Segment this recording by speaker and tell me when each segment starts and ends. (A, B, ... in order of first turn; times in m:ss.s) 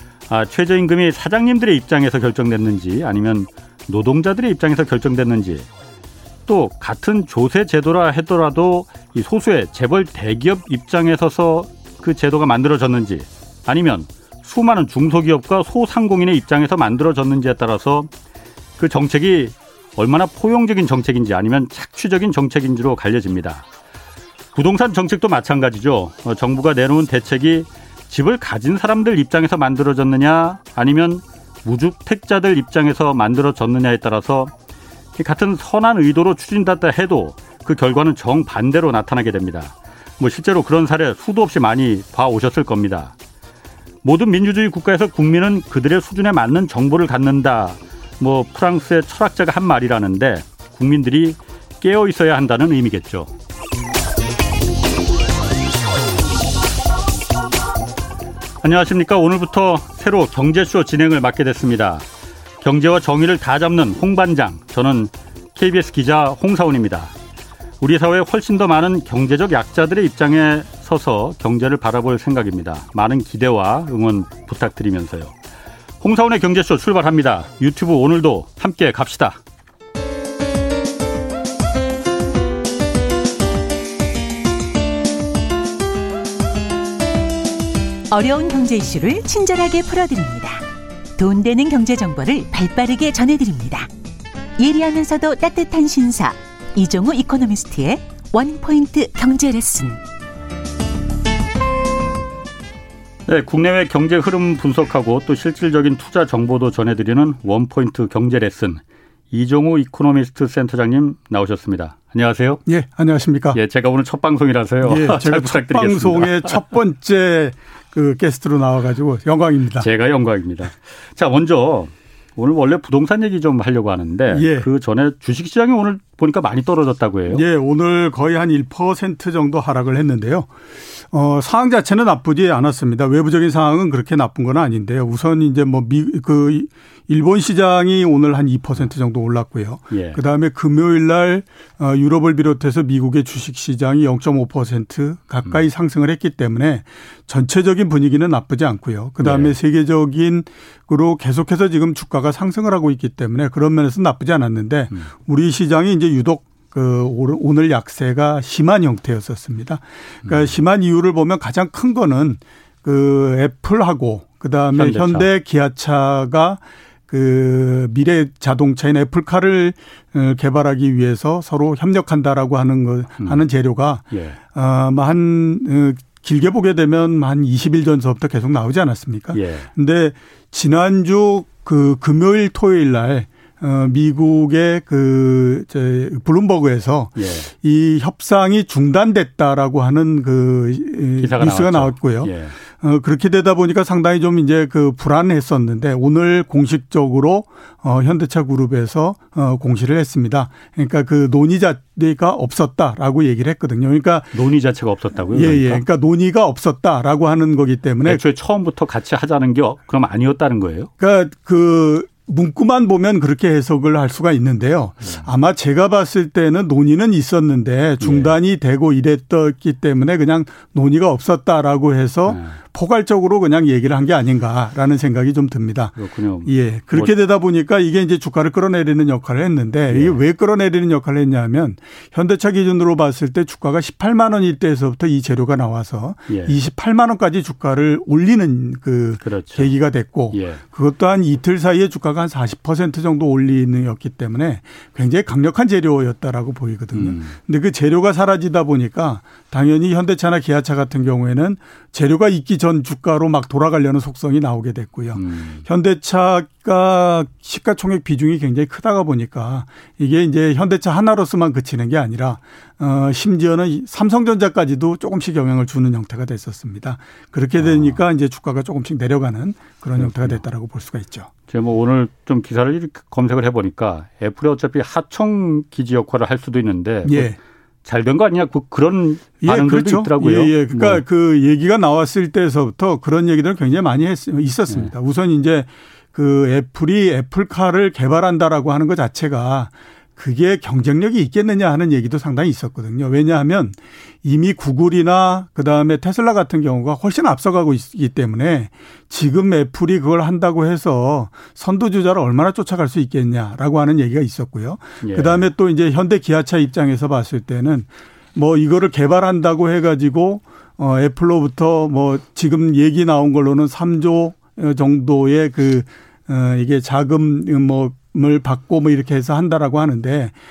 0:00.3-0:05.7 A
0:06.5-0:18.1 A
0:18.8-0:23.6 A
0:24.5-0:34.5 A
0:35.2-0:43.1 A
0:44.0-0:53.3 A
0:58.6-1:02.0 A
1:02.6-1:07.1 A
1:07.8-1:15.3 A
1:16.0-1:19.4 A
1:28.1-1:30.6 B
1:31.2-1:33.9 B
1:34.6-1:40.0 B
1:43.3-1:52.6 A
1:52.7-1:53.6 C
1:53.5-1:56.6 A
1:54.8-1:59.9 C
1:59.8-2:07.4 A
2:04.3-2:04.7 C
2:07.3-3:24.3 C
2:19.9-2:20.2 A
2:29.2-2:29.5 A
2:44.7-2:45.3 A
2:54.1-2:54.4 A
2:59.3-2:59.7 A
3:07.2-3:07.5 A
3:11.2-3:12.6 A
3:24.3-3:25.8 A
3:25.3-3:28.2 C
3:28.0-3:30.9 A
3:31.0-3:45.9 C
3:38.0-3:38.3 A
3:42.3-3:42.6 A
3:46.0-3:47.1 A
3:46.4-4:31.3 C
3:49.9-3:50.2 A
3:56.3-3:56.6 A
3:59.2-3:59.7 A
4:00.3-4:00.6 A
4:06.9-4:07.4 A
4:15.1-4:15.6 A
4:27.6-4:28.0 A
4:30.0-4:30.4 A
4:31.5-4:41.0 A
4:37.0-4:37.4 C
4:39.4-5:20.3 C
5:05.0-5:05.5 A